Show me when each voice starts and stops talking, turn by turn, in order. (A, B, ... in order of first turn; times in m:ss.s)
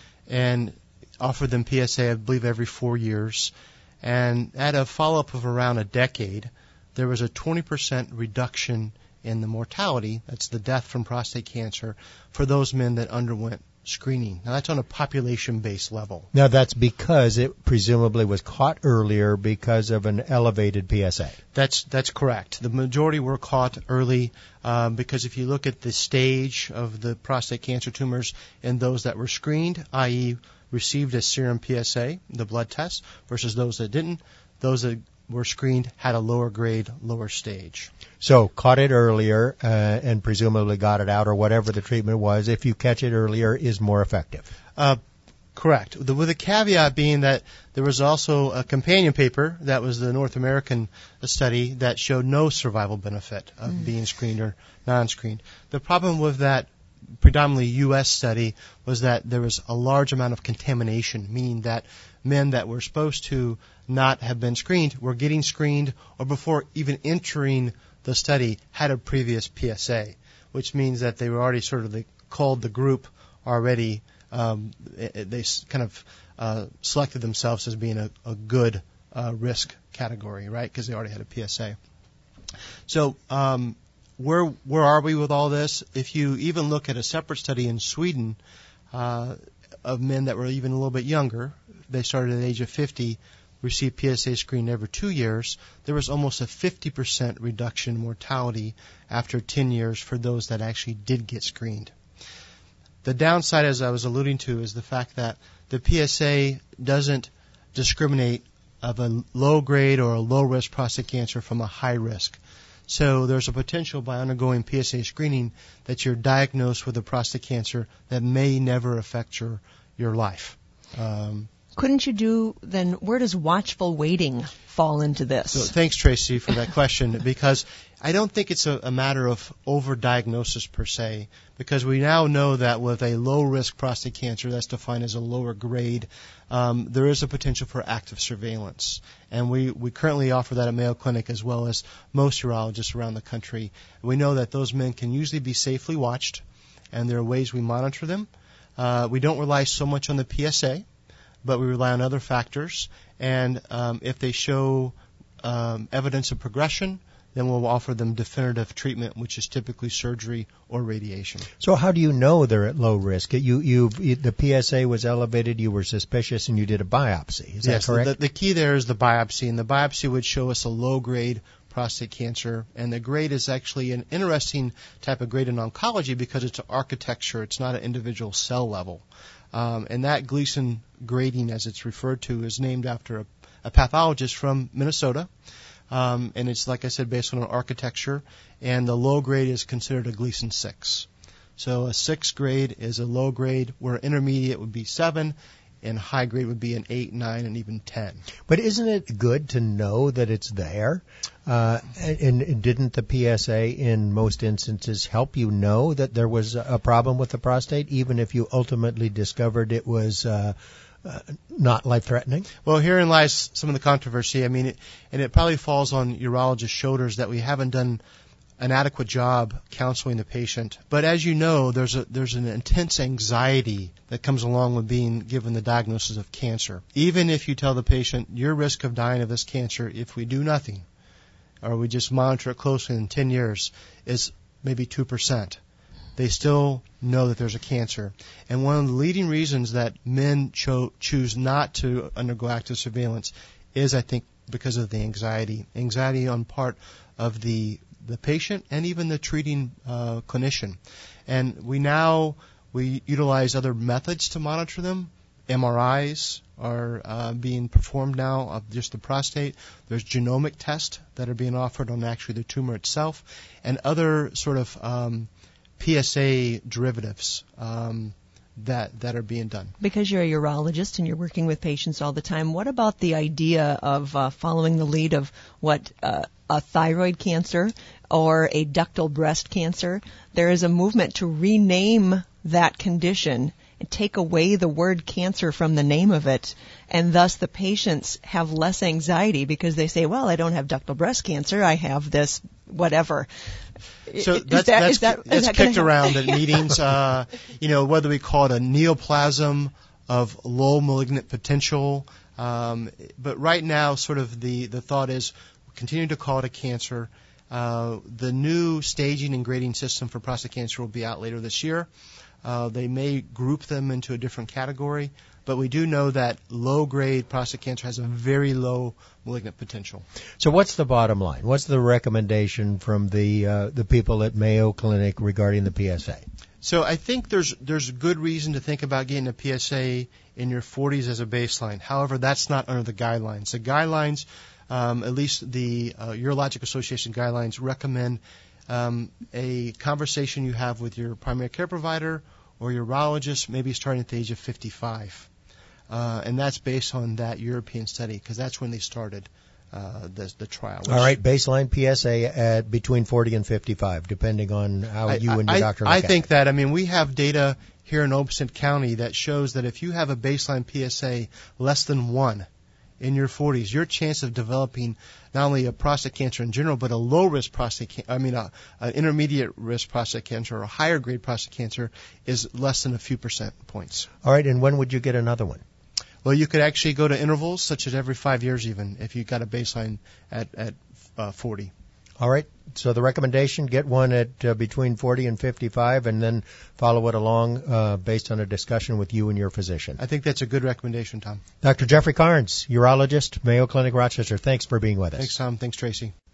0:00.3-0:16.3 A
0:16.3-0:21.4 B
0:21.5-0:37.9 A
0:38.2-0:44.5 B
0:45.5-0:56.7 A
0:57.2-1:21.8 A
1:22.9-1:28.4 A
1:28.9-1:41.9 A
1:43.0-2:01.5 A
2:01.7-2:05.7 C
2:05.5-2:30.8 A
2:31.4-2:41.5 A
2:41.6-2:48.1 B
2:47.6-3:05.3 A
3:05.9-3:18.2 A
3:18.5-3:32.5 B
3:32.6-3:38.0 A
3:38.6-3:50.8 A
3:51.6-3:55.6 A
3:56.2-4:29.7 A
4:29.8-4:53.3 C
4:54.1-4:56.5 C
4:54.2-5:11.9 A
5:12.4-5:20.0 A
5:20.4-5:26.2 B
5:26.6-5:45.3 A
5:45.9-5:51.1 A
5:50.8-5:56.2 B
5:55.1-6:02.5 A
6:03.0-6:14.1 A
6:14.2-6:15.6 B
6:16.2-6:21.7 A
6:22.2-6:30.0 B
6:30.0-6:31.4 A
6:31.6-6:35.3 B
6:35.2-6:36.1 A